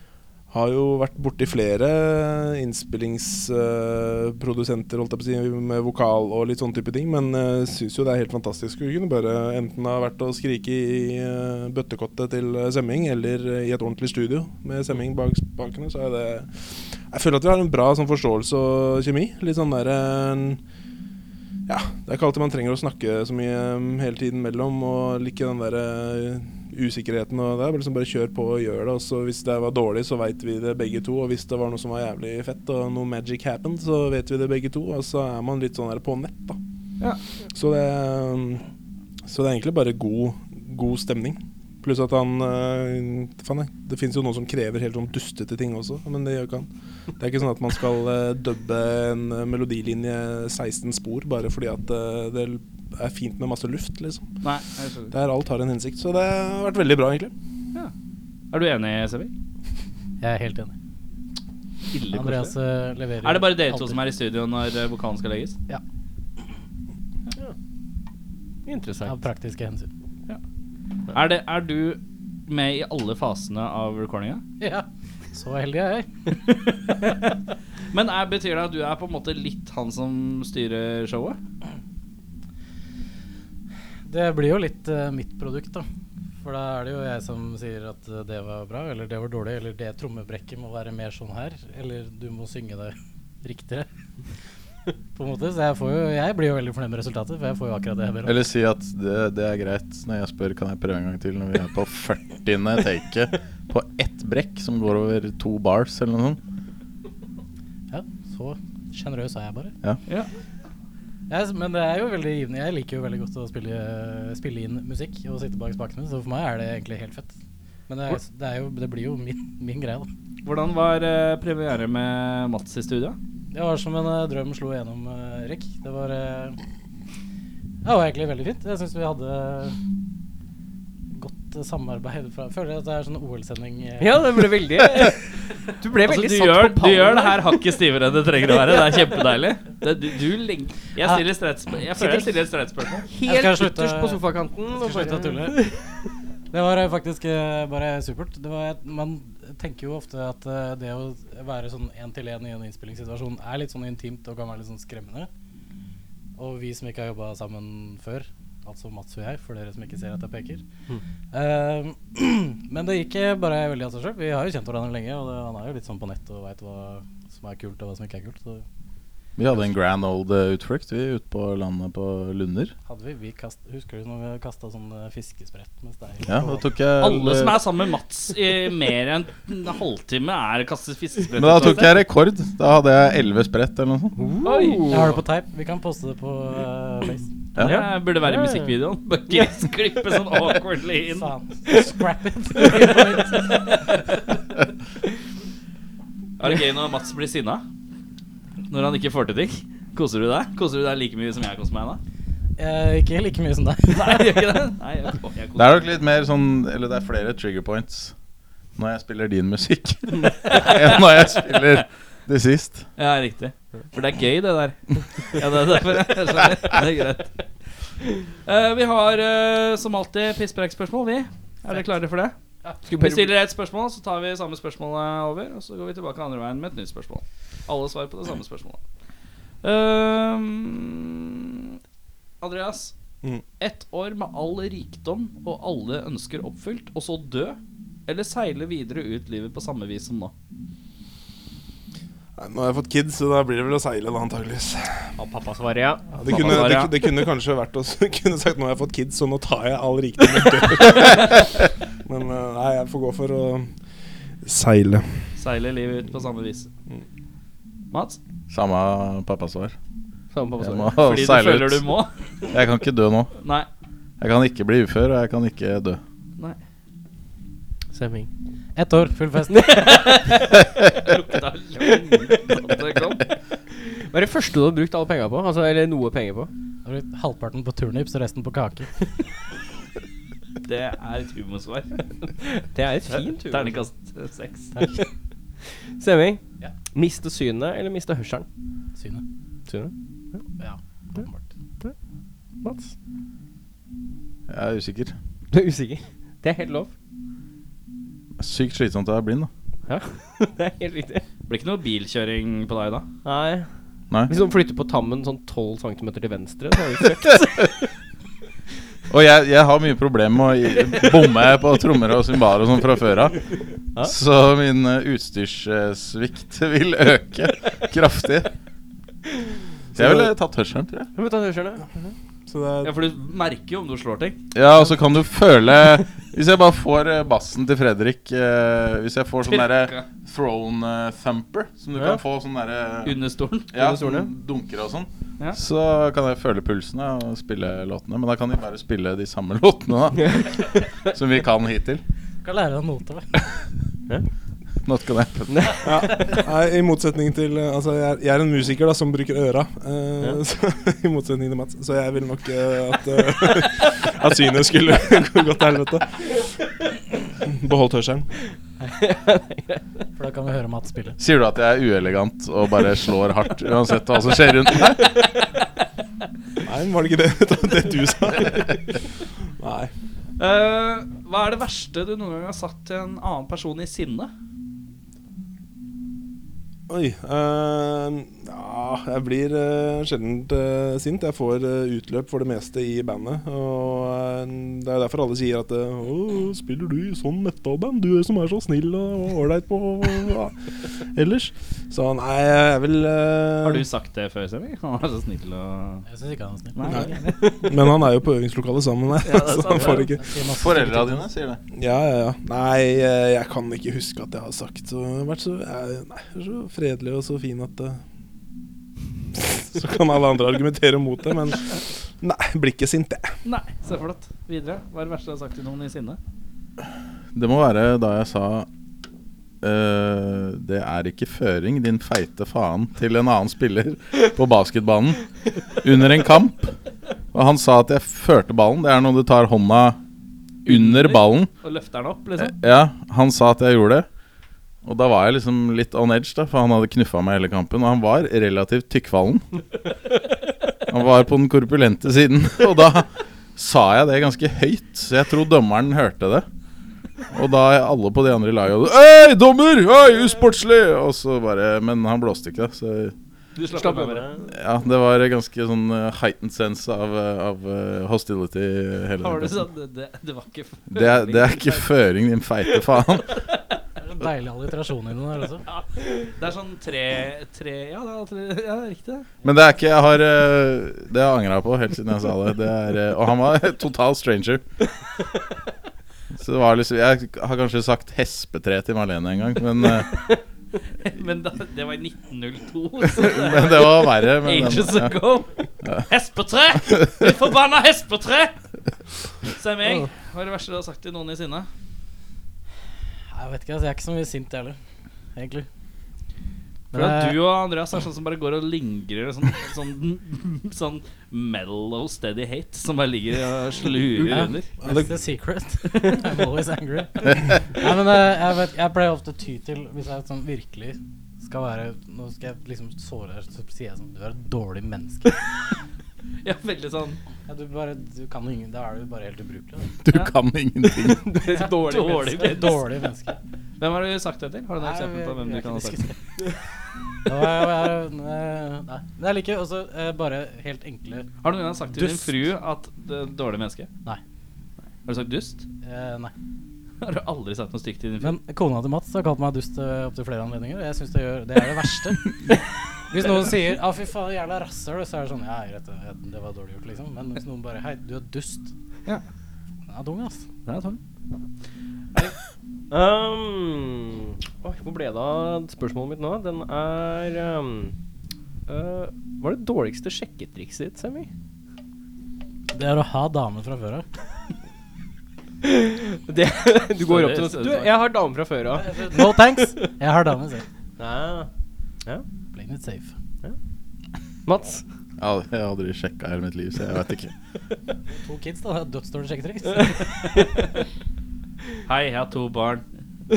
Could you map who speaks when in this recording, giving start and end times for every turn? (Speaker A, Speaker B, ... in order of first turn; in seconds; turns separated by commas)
Speaker A: 0.5-20.6, Speaker A: 21.7-36.6, Speaker A: 37.5-38.6, Speaker A: 39.2-54.3, Speaker B: 54.4-55.1, Speaker A: 55.1-57.3, Speaker B: 58.5-59.3, Speaker C: 60.2-60.7, Speaker B: 61.9-62.5, Speaker C: 62.1-64.0, Speaker B: 63.2-65.6, Speaker D: 68.6-69.1, Speaker C: 69.0-69.9, Speaker B: 71.1-74.4, Speaker C: 74.6-76.1, Speaker B: 77.9-81.4, Speaker C: 84.0-85.8, Speaker C: 86.4-93.9, Speaker C: 95.1-98.4, Speaker E: 98.2-106.4, Speaker C: 107.9-109.7, Speaker C: 111.3-117.3, Speaker C: 117.9-120.1, Speaker B: 120.4-123.2, Speaker C: 123.5-126.6, Speaker C: 127.8-129.8, Speaker C: 131.1-134.3, Speaker D: 134.0-135.2, Speaker D: 135.8-137.7, Speaker B: 136.0-143.1, Speaker D: 138.5-139.1, Speaker D: 142.0-142.3, Speaker D: 143.1-145.8, Speaker C: 143.2-144.2, Speaker C: 144.7-145.7, Speaker C: 146.5-155.3, Speaker C: 156.4-160.6, Speaker C: 161.3-168.6, Speaker E: 169.4-172.7, Speaker C: 172.9-176.7, Speaker E: 176.2-177.6, Speaker B: 177.0-182.0, Speaker E: 181.4-184.2, Speaker D: 184.2-185.2, Speaker B: 184.4-184.9, Speaker C: 184.9-187.3, Speaker B: 187.6-191.3, Speaker D: 187.6-188.7, Speaker C: 191.1-193.6, Speaker B: 196.4-197.6, Speaker B: 198.7-202.0, Speaker C: 202.6-204.4, Speaker B: 203.9-205.8, Speaker E: 205.6-208.1, Speaker E: 208.8-212.8, Speaker B: 210.5-211.6, Speaker B: 213.0-217.3, Speaker B: 218.4-222.3, Speaker D: 222.8-223.3, Speaker B: 222.9-228.8, Speaker B: 229.6-231.8, Speaker B: 232.4-232.9, Speaker B: 233.6-240.3, Speaker A: 242.3-245.0, Speaker D: 245.2-246.7, Speaker A: 246.2-253.7, Speaker B: 246.2-246.9, Speaker A: 254.4-255.1, Speaker B: 255.4-256.7, Speaker B: 257.9-258.2, Speaker E: 258.5-259.7, Speaker D: 260.3-261.0, Speaker E: 260.6-261.8, Speaker B: 261.0-262.1, Speaker E: 262.5-263.3, Speaker B: 263.4-263.7, Speaker E: 264.2-266.0, Speaker D: 267.9-268.3, Speaker C: 268.8-269.9, Speaker D: 269.5-270.2, Speaker B: 269.8-273.2, Speaker D: 271.9-272.3, Speaker D: 273.7-276.5, Speaker C: 276.8-278.9, Speaker B: 280.6-281.9, Speaker D: 282.4-283.8, Speaker B: 283.1-284.7, Speaker C: 284.7-285.0, Speaker D: 285.9-288.5, Speaker C: 289.0-289.2, Speaker D: 289.7-290.4, Speaker C: 290.6-291.4, Speaker D: 292.6-292.9, Speaker E: 294.5-295.1, Speaker D: 295.5-296.9, Speaker E: 298.4-299.5, Speaker D: 299.9-301.2, Speaker B: 301.5-303.1, Speaker D: 303.2-303.7, Speaker D: 304.3-307.8, Speaker E: 307.4-307.6, Speaker E: 309.1-313.4, Speaker E: 314.0-318.5, Speaker E: 319.9-321.1, Speaker A: 320.0-320.3, Speaker D: 321.1-321.9, Speaker A: 322.5-322.9, Speaker B: 322.8-324.4, Speaker E: 324.5-333.2, Speaker B: 329.4-330.1, Speaker D: 331.9-332.2, Speaker B: 333.0-333.7, Speaker E: 333.7-342.0, Speaker D: 333.8-334.3, Speaker C: 342.4-343.3, Speaker E: 344.8-345.8, Speaker D: 345.5-345.8, Speaker A: 345.8-356.4, Speaker A: 357.4-358.3, Speaker D: 359.0-359.8, Speaker C: 360.1-361.2, Speaker E: 361.2-365.3, Speaker A: 366.6-369.0, Speaker A: 369.6-369.9, Speaker B: 370.4-374.3, Speaker A: 376.9-393.9, Speaker B: 393.6-396.0, Speaker C: 396.1-397.1, Speaker B: 396.7-397.4, Speaker A: 396.9-400.2, Speaker D: 397.0-397.7, Speaker B: 399.2-400.1, Speaker C: 400.1-401.3, Speaker E: 400.5-401.6, Speaker A: 401.7-408.0, Speaker A: 409.4-413.3, Speaker B: 413.4-416.2, Speaker E: 417.3-418.7, Speaker E: 419.6-426.7, Speaker E: 427.3-430.0, Speaker E: 430.6-431.5, Speaker B: 430.6-432.6, Speaker E: 432.4-434.1, Speaker E: 434.8-439.4, Speaker E: 440.9-446.4, Speaker E: 447.3-453.1, Speaker B: 453.6-454.3, Speaker D: 453.7-454.5, Speaker E: 454.5-459.6, Speaker B: 459.2-461.9, Speaker E: 460.9-463.4, Speaker B: 463.3-463.5, Speaker C: 464.0-465.6, Speaker B: 465.7-469.4, Speaker E: 469.4-474.6, Speaker E: 476.3-480.1, Speaker B: 481.0-488.6, Speaker E: 483.1-485.1, Speaker E: 485.8-486.1, Speaker B: 489.4-491.7, Speaker C: 493.3-494.8, Speaker C: 495.4-495.7, Speaker C: 496.9-497.4, Speaker B: 496.9-504.7, Speaker C: 504.3-515.4, Speaker A: 504.8-505.1, Speaker B: 516.4-517.2, Speaker C: 517.5-520.0, Speaker E: 520.0-521.2, Speaker D: 521.0-522.7, Speaker C: 521.4-523.4, Speaker B: 521.9-522.8, Speaker B: 523.8-526.0, Speaker C: 524.8-526.1, Speaker C: 527.2-531.3, Speaker B: 531.4-533.9, Speaker C: 531.9-532.4, Speaker B: 535.0-535.6, Speaker C: 535.8-536.3, Speaker B: 537.0-538.4, Speaker C: 538.2-542.5, Speaker C: 543.1-548.7, Speaker C: 549.9-550.4, Speaker B: 550.6-551.0, Speaker D: 552.9-557.9, Speaker D: 558.7-561.3, Speaker C: 562.7-564.0, Speaker D: 565.6-569.6, Speaker B: 567.0-567.9, Speaker C: 568.7-570.6, Speaker D: 571.0-571.5, Speaker C: 572.5-573.1, Speaker D: 574.5-574.8, Speaker E: 575.2-577.3, Speaker C: 578.2-580.3, Speaker B: 581.9-582.8